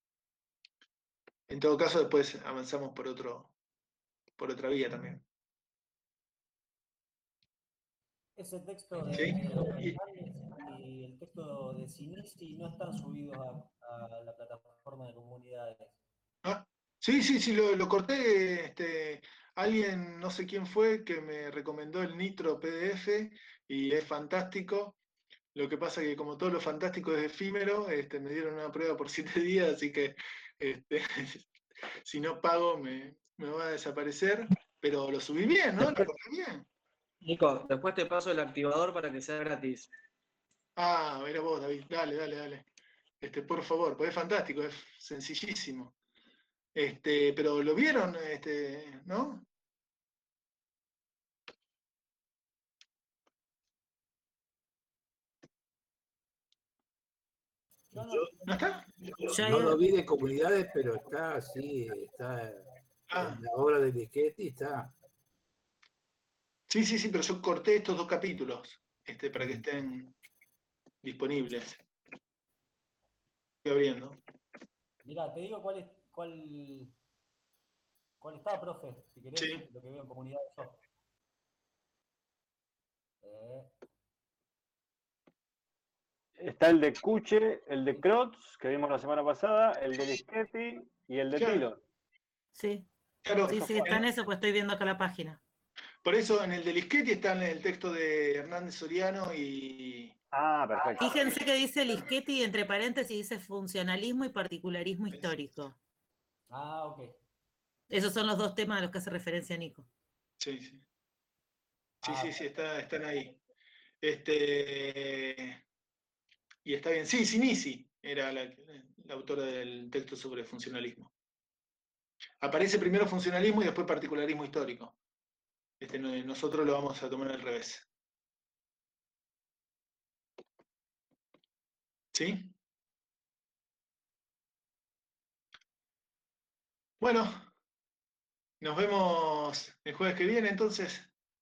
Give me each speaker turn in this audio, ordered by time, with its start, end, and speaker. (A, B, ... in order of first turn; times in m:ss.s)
0:01.5-0:03.5 A
0:04.4-0:05.2 A
0:08.4-0:16.0 B
0:09.1-0:10.0 A
0:16.4-0:25.0 A
0:25.6-0:31.5 A
0:32.0-0:36.7 A
0:37.2-0:39.9 C
0:40.8-0:42.6 A
0:43.2-0:46.0 A
0:46.8-0:49.5 A
0:57.9-0:58.5 B
0:58.5-0:58.9 A
0:59.3-0:59.8 D
0:59.3-1:05.0 E
1:03.1-1:03.4 A
1:06.7-1:10.2 A
1:11.0-1:11.8 A
1:13.6-1:14.2 A
1:15.0-1:17.0 B
1:18.2-1:20.8 B
1:19.4-1:19.6 A
1:23.2-1:23.7 B
1:26.4-1:31.8 F
1:31.4-1:31.7 A
1:32.6-1:32.9 D
1:33.2-1:34.0 A
1:33.5-1:34.0 F
1:33.5-1:35.4 D
1:36.0-1:40.2 A
1:40.3-1:41.3 F
1:40.8-1:41.2 A
1:41.0-1:45.8 D
1:45.1-1:45.5 A
1:46.5-1:47.2 B
1:47.9-1:49.9 D
1:50.4-1:50.8 A
1:52.0-1:52.4 B
1:52.0-1:53.4 A
1:54.0-1:55.6 A
1:56.6-2:01.1 A
2:02.4-2:05.0 A
2:05.8-2:07.9 A
2:12.1-2:12.6 A
2:17.0-2:17.5 A
2:18.6-2:21.1 A